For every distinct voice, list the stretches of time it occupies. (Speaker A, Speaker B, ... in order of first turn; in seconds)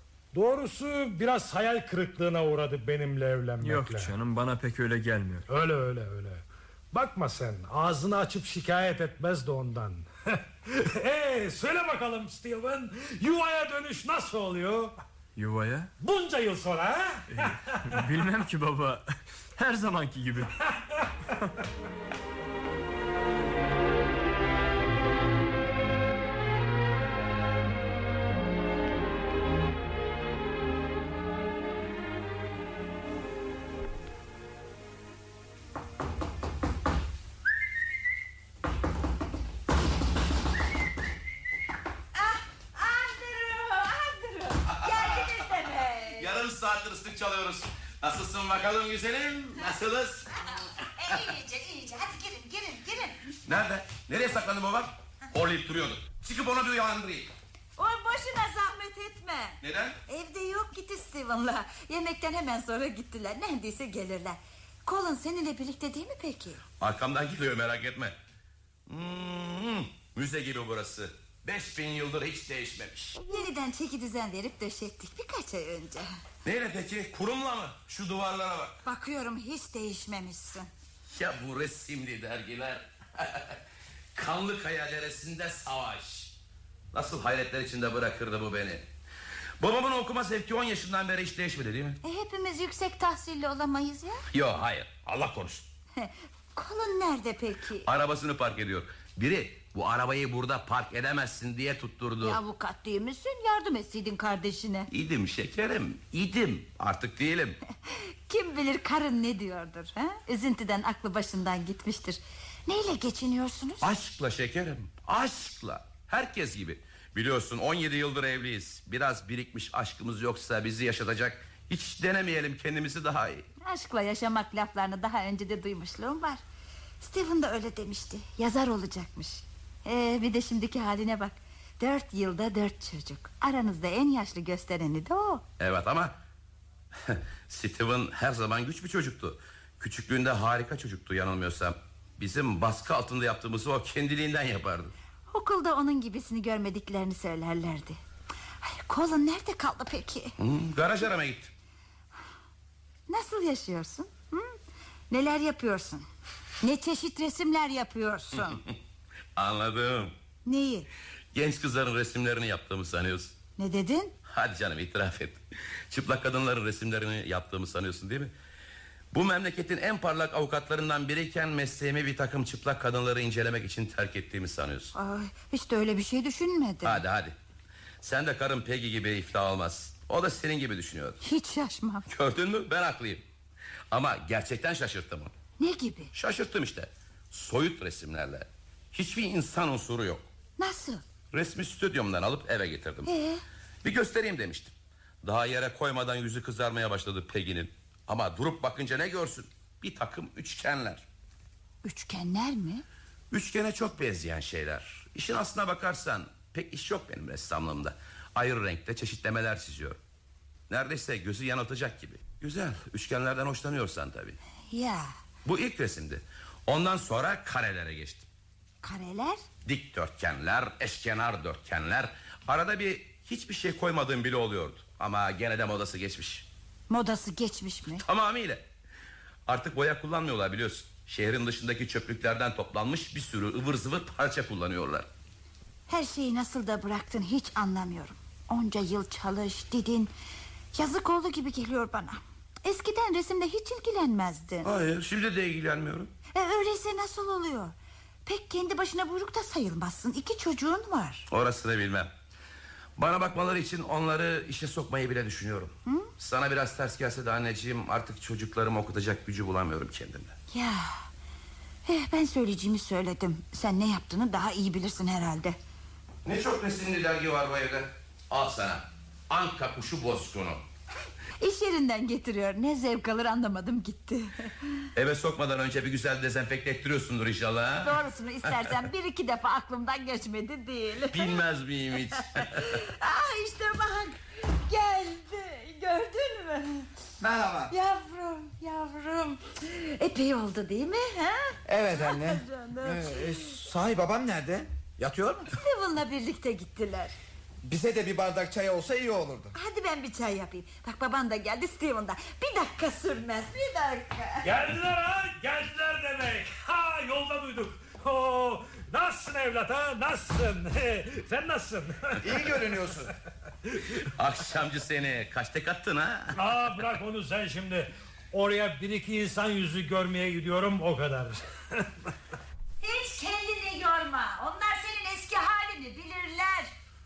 Speaker A: 0.3-4.1, 5.5-14.9, 16.0-17.9, 20.6-21.1, 304.4-312.7, 316.3-322.1
Speaker B: 3.6-5.4, 15.3-15.9, 17.3-20.5
Speaker C: 42.1-46.3, 51.0-53.2, 57.8-66.6, 73.2-76.1, 78.8-80.7, 92.0-94.2, 96.0-97.9, 102.2-104.9, 107.9-113.9, 123.6-126.4, 127.0-135.4, 145.3-148.0, 148.6-150.3, 153.1-154.5, 155.1-156.1, 156.6-158.6, 160.4-160.9, 163.6-164.1, 174.9-177.0, 181.2-182.1, 185.6-186.1, 190.6-191.0, 193.1-193.4, 201.8-202.8, 214.7-215.1, 218.8-219.4, 226.9-228.0, 235.9-240.1, 240.7-244.7, 246.3-247.7, 248.2-251.3, 260.5-261.0, 261.9-265.6, 271.4-274.8, 277.8-281.4, 282.4-286.9, 287.7-293.5, 295.5-297.1, 299.5-304.5, 322.8-326.7
Speaker D: 44.7-45.3, 46.2-50.3, 53.5-57.3, 59.6-60.0, 66.8-68.1, 68.9-73.2, 76.4-78.8, 81.1-83.6, 84.1-86.3, 86.9-88.8, 89.6-92.0, 94.3-95.7, 97.8-102.4, 104.9-107.6, 113.8-123.5, 135.6-136.2, 137.0-144.9, 150.4-151.5, 159.3-160.1, 161.3-163.3, 164.3-168.3, 169.1-174.9, 176.8-177.3, 178.0-181.2, 182.1-183.2, 183.9-185.3, 186.1-190.2, 191.3-193.1, 193.8-201.0, 203.3-210.0, 210.7-214.4, 215.4-218.3, 219.6-226.5, 228.0-228.6, 229.5-235.1, 244.6-246.1, 251.3-252.1, 253.0-260.3, 266.2-270.6, 274.9-278.0, 281.1-282.7, 314.1-316.4
Speaker E: 287.2-287.7, 291.7-295.5, 297.6-299.5, 312.2-313.1